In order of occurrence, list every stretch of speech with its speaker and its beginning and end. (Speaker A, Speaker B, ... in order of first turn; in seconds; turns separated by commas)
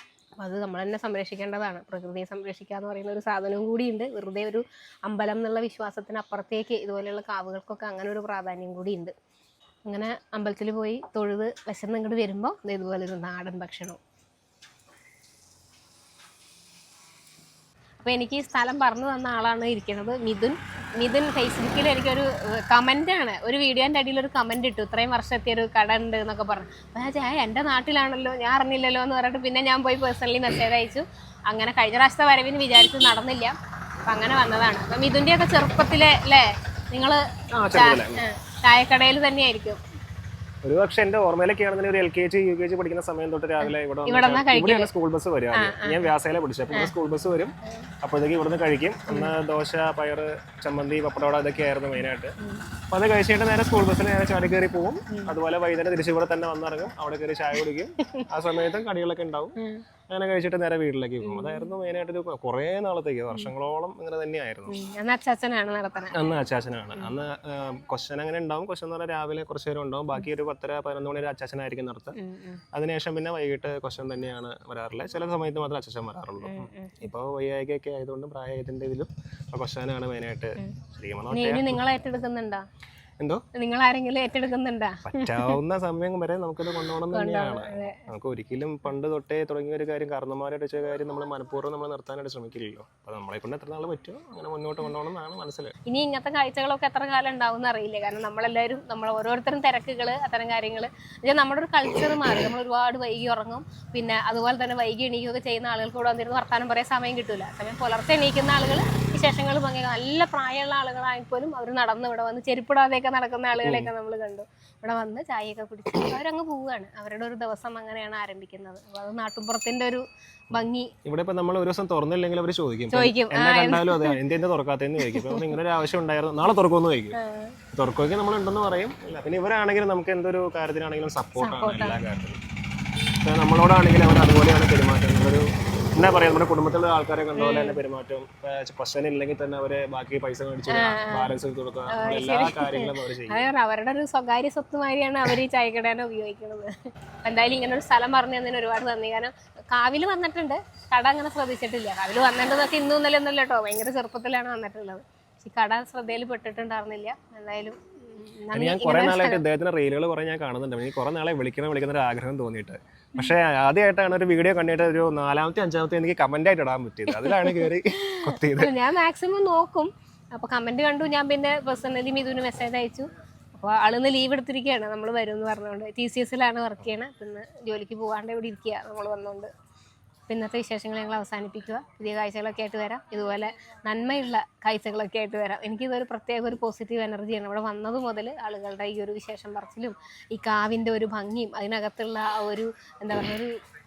Speaker A: 0.4-9.1, Speaker A: 9.9-14.0, Speaker A: 18.0-33.5, Speaker A: 34.1-39.8, Speaker B: 37.5-38.2, Speaker B: 40.6-52.3, Speaker A: 43.6-44.9, Speaker A: 45.5-46.1, Speaker A: 49.1-49.3, Speaker B: 52.9-59.5, Speaker A: 55.1-55.4, Speaker A: 58.0-58.2, Speaker A: 59.6-59.8, Speaker B: 60.1-64.7, Speaker A: 61.2-61.7, Speaker A: 64.7-66.4, Speaker B: 66.1-72.2, Speaker A: 72.1-72.6, Speaker B: 72.7-81.8, Speaker A: 76.4-77.1, Speaker A: 81.3-82.7, Speaker A: 83.5-85.5, Speaker B: 85.0-95.7, Speaker A: 86.8-88.0, Speaker A: 95.8-120.9, Speaker B: 113.6-113.9, Speaker B: 120.5-127.2, Speaker A: 122.9-124.2, Speaker A: 125.0-125.6, Speaker A: 127.1-127.6, Speaker B: 127.7-132.4, Speaker A: 131.4-132.0, Speaker B: 133.2-135.4, Speaker B: 135.9-143.5, Speaker A: 137.3-137.8, Speaker A: 140.7-141.3, Speaker A: 141.9-159.4, Speaker B: 158.5-168.7, Speaker A: 167.1-179.5, Speaker A: 180.3-193.5